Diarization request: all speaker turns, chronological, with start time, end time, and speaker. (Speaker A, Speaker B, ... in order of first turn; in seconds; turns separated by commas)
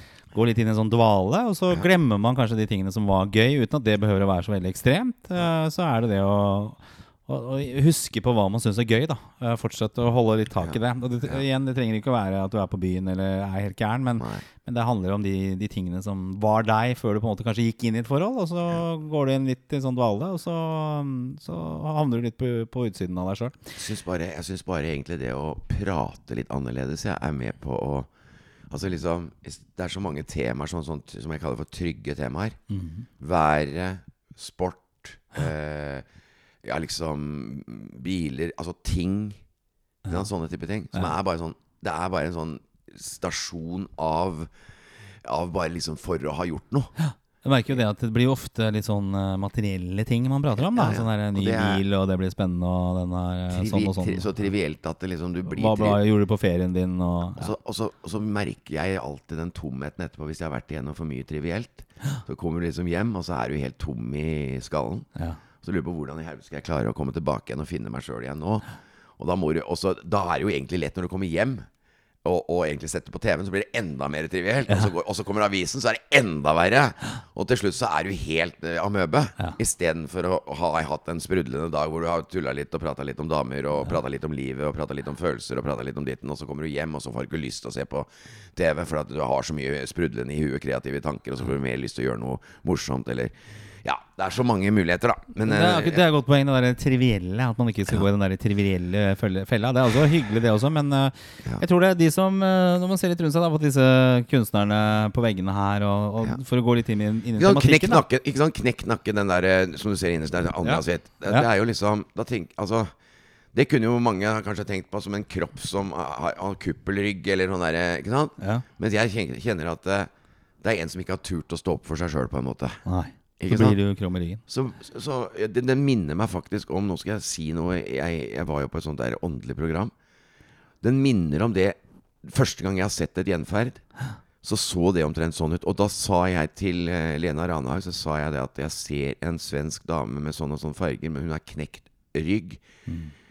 Speaker A: 0.3-23.8, Speaker B: 23.8-28.1, Speaker B: 28.7-32.6, Speaker A: 32.7-33.0, Speaker B: 33.2-36.0, Speaker B: 36.6-39.4, Speaker B: 40.1-44.5, Speaker B: 45.2-46.9, Speaker A: 47.0-54.3, Speaker B: 50.7-51.8, Speaker B: 53.5-56.0, Speaker A: 55.5-57.5, Speaker B: 57.4-65.1, Speaker B: 65.6-68.7, Speaker B: 69.2-71.7, Speaker B: 72.2-96.0, Speaker A: 95.4-108.0, Speaker B: 107.4-112.9, Speaker A: 110.6-111.5, Speaker B: 113.5-122.8, Speaker A: 122.8-124.4, Speaker B: 123.4-123.8, Speaker B: 124.5-129.9, Speaker B: 130.8-133.8, Speaker B: 134.4-142.6, Speaker A: 142.9-143.1